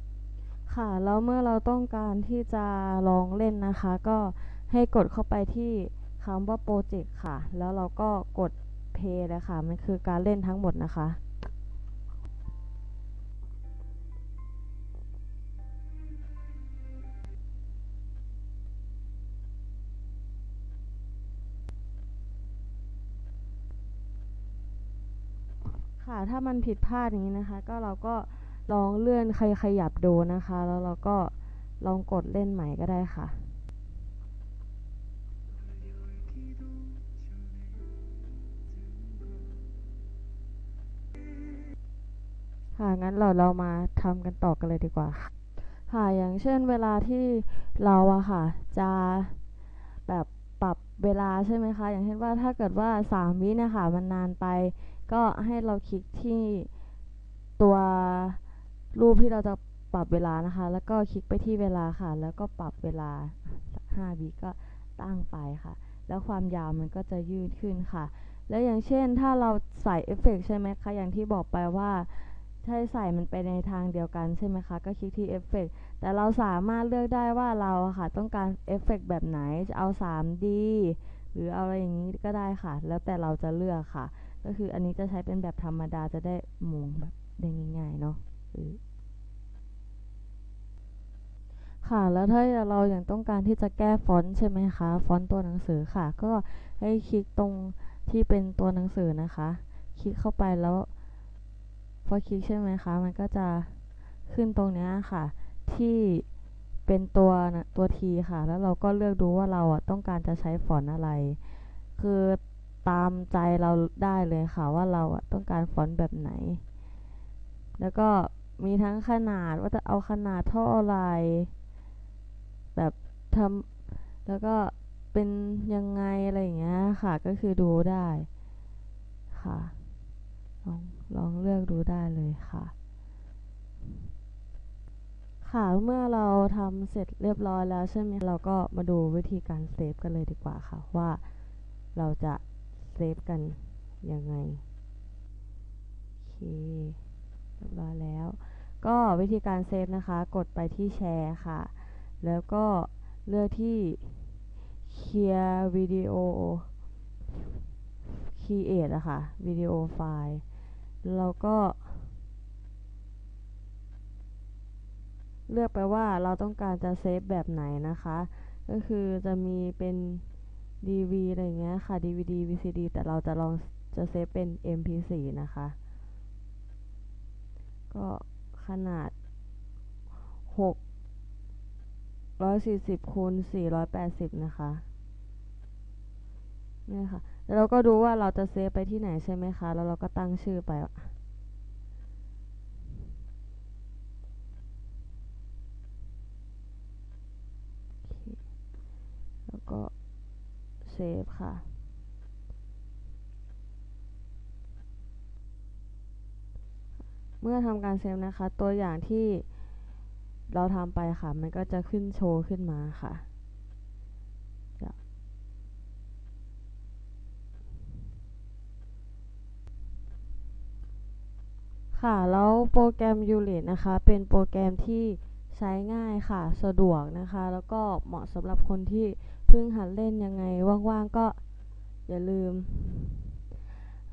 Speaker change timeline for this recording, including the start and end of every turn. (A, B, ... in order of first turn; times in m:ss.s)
0:00.7-0:11.2 A
0:26.0-0:33.6 A
0:42.8-0:49.4 A
0:50.1-0:56.7 A
0:57.6-0:58.4 A
0:58.9-1:28.8 A
1:31.8-1:40.9 A
1:42.0-1:46.3 A
1:46.9-1:51.4 A
1:52.0-1:56.6 A
1:57.8-2:01.5 A
2:02.8-2:03.7 A
2:04.2-2:08.3 A
2:09.3-2:09.8 A
2:10.6-2:12.7 A
2:15.4-2:21.2 A
2:22.0-2:24.6 A
2:26.2-2:27.0 A
2:27.6-2:36.7 A
2:38.1-2:40.4 A
2:41.0-2:42.1 A
2:45.5-2:50.2 A
2:50.8-2:55.8 A
2:57.9-2:59.1 A
3:00.5-3:00.8 A
3:02.4-3:04.8 A
3:06.9-3:11.1 A
3:18.0-3:18.4 A
3:19.5-3:19.9 A
3:20.8-3:21.7 A
3:27.4-3:29.5 A
3:30.5-3:33.2 A
3:41.9-3:51.4 A
3:52.1-3:53.4 A